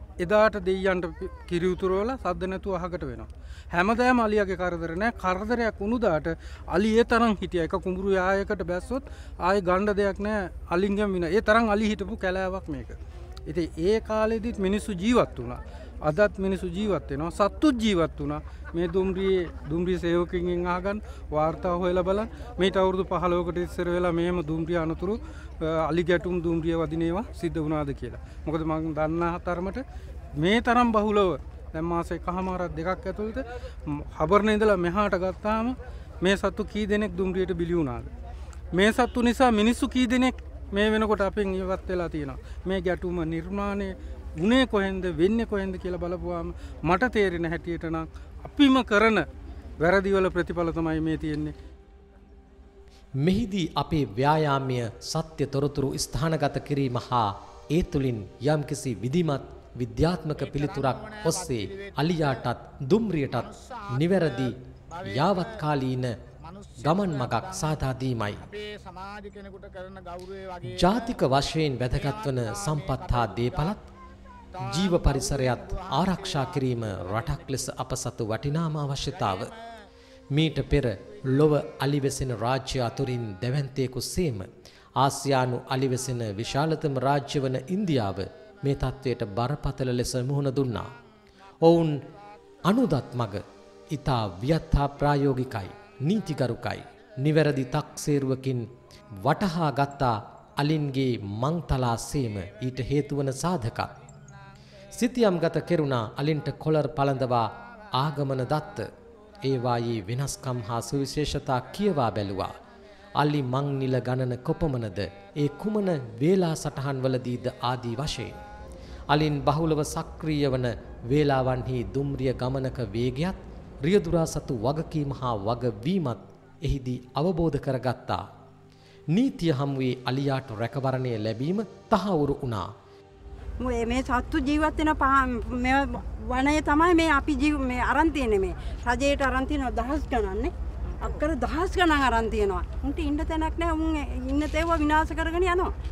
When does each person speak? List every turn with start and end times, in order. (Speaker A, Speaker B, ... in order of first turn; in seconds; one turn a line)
Speaker A: 0.2-29.8
Speaker A: 30.4-38.1
Speaker A: 38.7-49.3
Speaker A: 49.8-51.5
Speaker B: 53.2-66.2
Speaker C: 60.4-62.5
Speaker C: 63.3-65.6
Speaker C: 66.4-67.8
Speaker B: 66.8-68.5
Speaker C: 68.4-71.2
Speaker B: 70.6-73.9
Speaker C: 71.9-73.8
Speaker C: 74.5-77.4
Speaker B: 74.6-79.5
Speaker B: 80.3-90.9
Speaker B: 91.6-92.0
Speaker B: 92.7-98.7
Speaker B: 99.2-103.9
Speaker B: 104.9-108.9
Speaker B: 109.4-112.6
Speaker B: 113.2-118.4
Speaker B: 119.1-128.2
Speaker B: 129.1-132.7
Speaker D: 133.6-145.7